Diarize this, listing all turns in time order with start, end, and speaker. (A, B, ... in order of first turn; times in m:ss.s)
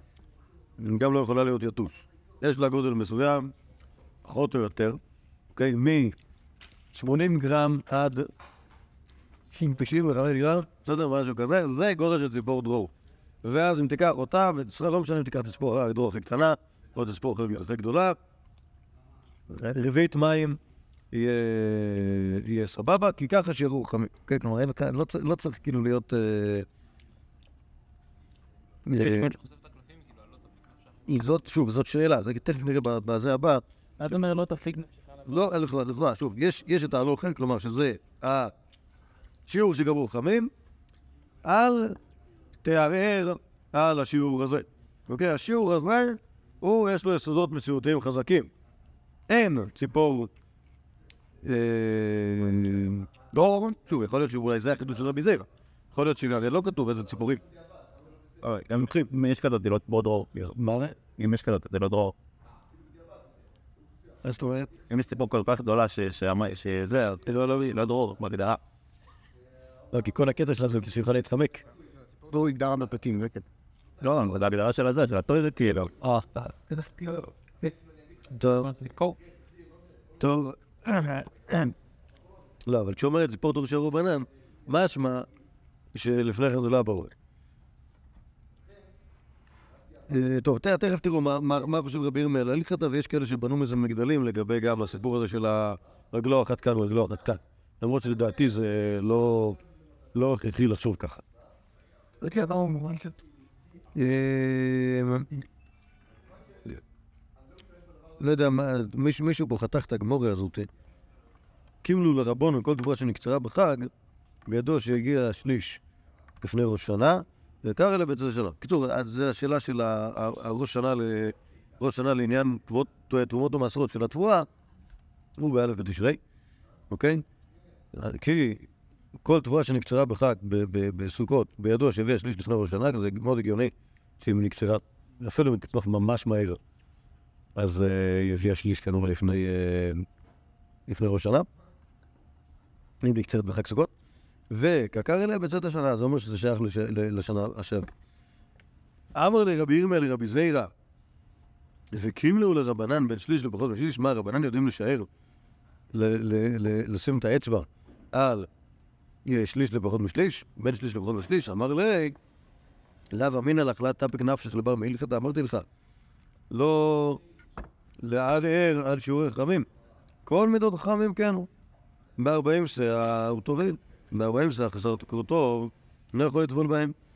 0:00.8-0:03.5 A
0:04.2-0:05.0 A
0:05.5-0:06.2 A
0:06.9-0:08.3 A
0:09.5-0:12.9 A
0:13.4-0:18.2 A
0:19.5-0:20.6 A
0:21.1-0:26.7 A
0:28.8-0:29.3 A
0:29.0-0:30.5 B
0:31.1-0:33.6 A
0:34.0-0:34.9 B
0:35.2-0:38.5 A
0:39.5-0:40.5 A
0:41.4-0:42.0 A
0:42.6-0:48.5 A
0:49.3-0:50.3 A
0:51.4-0:57.4 A
0:58.4-1:00.3 C
1:00.3-1:01.0 A
1:01.2-1:02.2 C
1:04.2-1:04.7 A
1:04.9-1:08.6 C
1:09.9-1:11.6 A
1:12.3-1:13.4 D
1:14.0-1:15.9 C
1:16.0-1:16.3 A
1:16.3-1:17.7 D
1:18.3-1:18.7 A
1:20.2-1:21.7 A
1:22.6-1:25.3 A
1:25.9-1:27.1 A
1:30.1-1:39.6 A
1:40.1-1:41.2 A
1:42.2-1:43.2 D
1:43.9-1:45.3 A
1:48.2-1:50.7 A
1:51.8-1:53.9 A
1:54.5-1:55.8 A
1:56.4-2:04.5 A
2:05.4-2:06.2 A
2:06.9-2:07.2 A
2:07.9-2:08.7 A
2:09.2-2:16.6 A
2:17.6-2:20.0 A
2:20.9-2:21.5 A
2:23.0-2:23.9 A
2:24.5-2:27.9 A
2:29.1-2:30.7 A
2:31.9-2:35.1 A
2:35.9-2:38.5 A
2:39.2-2:42.2 A
2:43.1-2:45.6 A
2:46.5-2:47.2 A
2:48.0-2:49.7 A
2:50.2-2:51.5 A
2:52.2-2:56.9 A